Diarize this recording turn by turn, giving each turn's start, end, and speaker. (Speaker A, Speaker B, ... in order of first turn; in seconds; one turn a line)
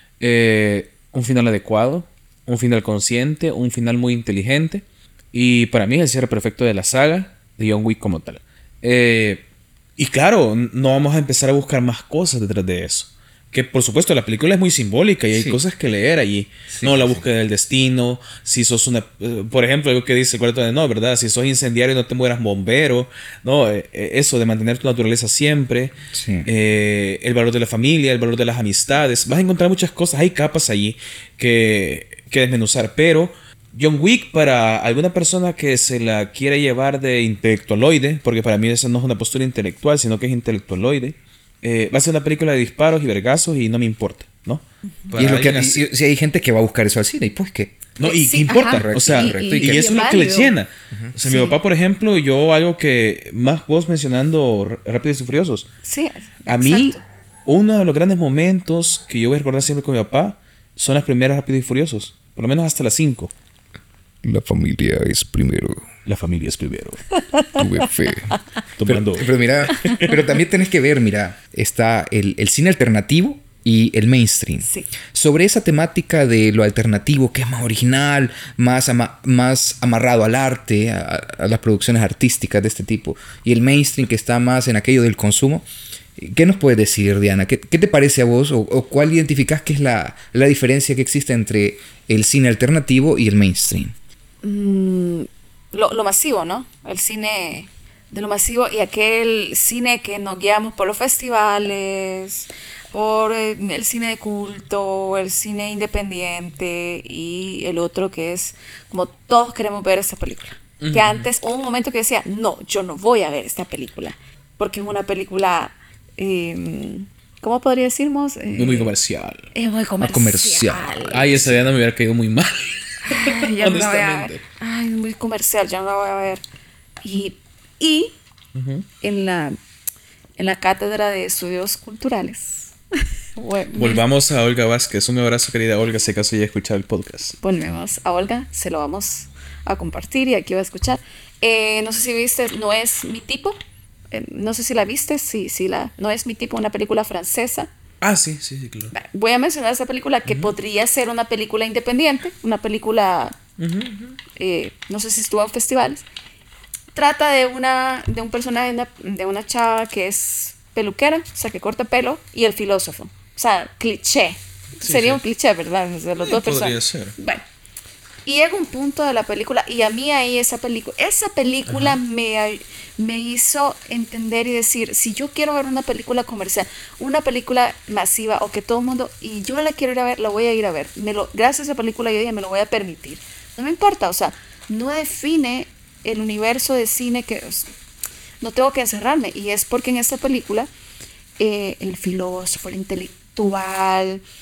Speaker A: 0.2-9.4
Speaker A: 10.0-45.8
Speaker B: 15.3-15.6
Speaker B: 16.7-17.2
Speaker B: 26.1-26.5
Speaker B: 45.2-47.9
Speaker A: 48.0-55.6
Speaker C: 48.0-50.5
Speaker B: 48.7-49.9
Speaker C: 51.2-51.6
Speaker C: 55.8-57.0
Speaker A: 56.5-63.3
Speaker B: 64.2-65.9
Speaker A: 66.0-67.0
Speaker C: 67.2-68.4
Speaker B: 67.6-85.6
Speaker A: 68.8-70.2
Speaker C: 69.7-70.0
Speaker C: 74.6-74.9
Speaker B: 86.2-93.9
Speaker C: 94.4-118.9
Speaker A: 110.8-111.3
Speaker A: 118.5-119.4
Speaker C: 119.5-121.5
Speaker B: 120.0-121.5
Speaker A: 121.1-124.4
Speaker C: 123.0-126.4
Speaker C: 127.0-128.2
Speaker A: 128.5-128.8
Speaker C: 129.0-129.6
Speaker C: 130.4-132.7
Speaker C: 133.4-134.0
Speaker A: 133.7-137.3
Speaker C: 137.4-143.6
Speaker C: 144.1-147.7
Speaker A: 148.0-148.9
Speaker C: 148.9-153.4
Speaker A: 150.2-150.5
Speaker A: 153.6-154.2
Speaker C: 154.3-156.0
Speaker C: 156.9-167.4
Speaker A: 164.8-165.2
Speaker A: 166.2-167.1
Speaker C: 168.2-187.7
Speaker A: 171.7-172.0
Speaker C: 188.4-190.7
Speaker C: 191.4-194.2